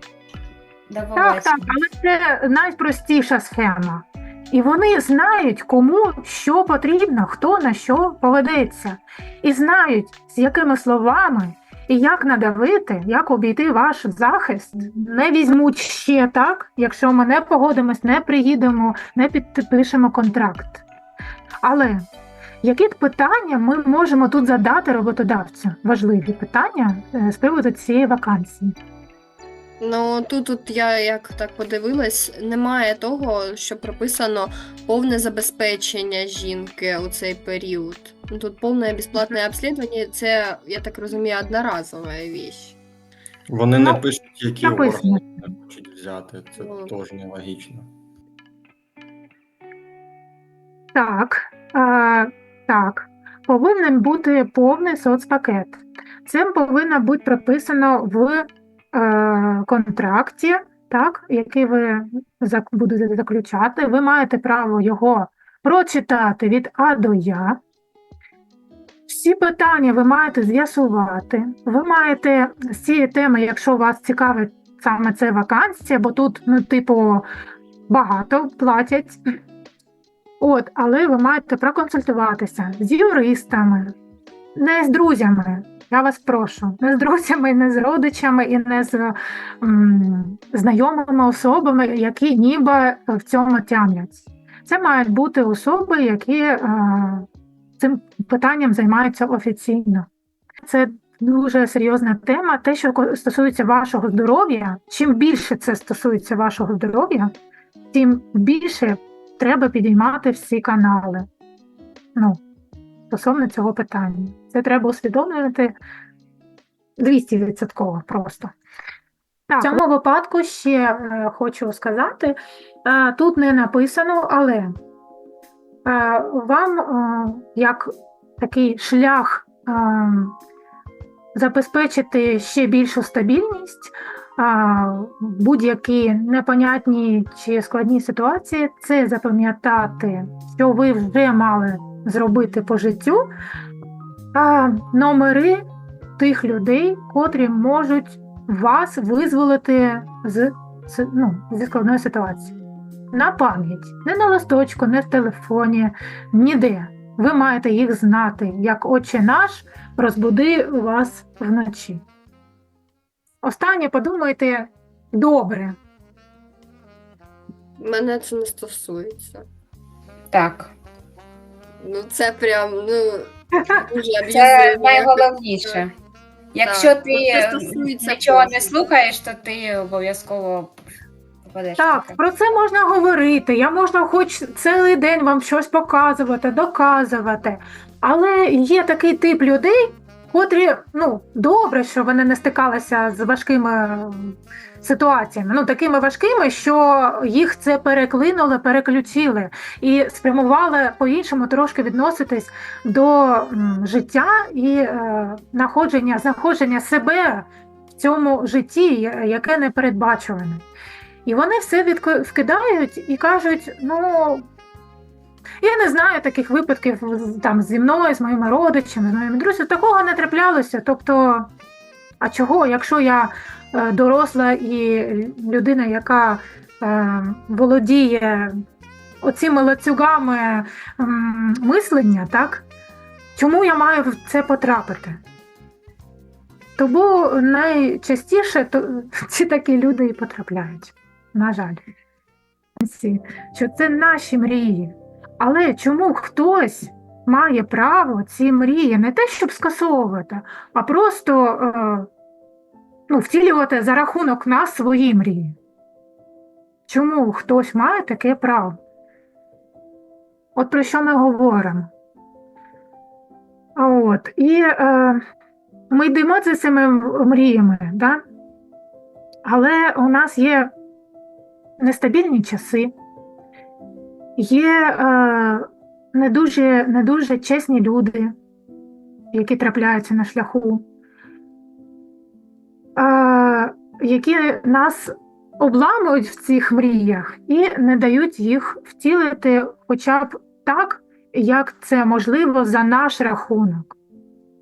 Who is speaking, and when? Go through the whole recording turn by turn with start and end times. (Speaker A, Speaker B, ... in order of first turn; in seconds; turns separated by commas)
Speaker A: 0.9-1.7, Speaker B: 1.1-20.8, Speaker B: 21.6-22.1, Speaker B: 22.6-28.7, Speaker C: 29.8-42.8, Speaker D: 43.5-47.9, Speaker B: 43.8-44.0, Speaker B: 44.6-45.2, Speaker C: 46.6-46.9, Speaker B: 50.9-67.6, Speaker B: 69.1-77.3, Speaker B: 77.9-79.2, Speaker B: 80.4-83.9, Speaker B: 84.5-97.3, Speaker B: 97.8-100.1, Speaker B: 100.6-107.3, Speaker B: 107.9-111.3, Speaker B: 112.2-112.4, Speaker B: 113.1-115.8, Speaker B: 117.0-118.5, Speaker B: 119.5-124.8, Speaker B: 125.8-130.3, Speaker B: 131.3-143.3, Speaker B: 144.3-145.6, Speaker B: 146.2-152.5, Speaker B: 153.1-162.0, Speaker B: 163.4-165.8, Speaker C: 167.8-169.4, Speaker A: 170.3-170.7, Speaker C: 171.8-175.8, Speaker A: 174.2-175.9, Speaker A: 176.5-180.7, Speaker C: 176.6-178.9, Speaker A: 181.4-182.2, Speaker B: 181.8-210.6, Speaker B: 211.2-214.5, Speaker B: 215.6-221.5, Speaker B: 222.2-228.5, Speaker B: 229.2-232.6, Speaker B: 233.4-235.2, Speaker B: 236.8-241.8, Speaker B: 242.8-252.1, Speaker B: 253.1-255.6, Speaker B: 256.9-258.8, Speaker B: 260.5-261.9, Speaker B: 263.8-265.2, Speaker B: 265.9-268.2, Speaker B: 269.4-270.7, Speaker B: 271.8-272.9, Speaker B: 274.4-278.4, Speaker B: 279.3-280.8, Speaker B: 282.9-293.9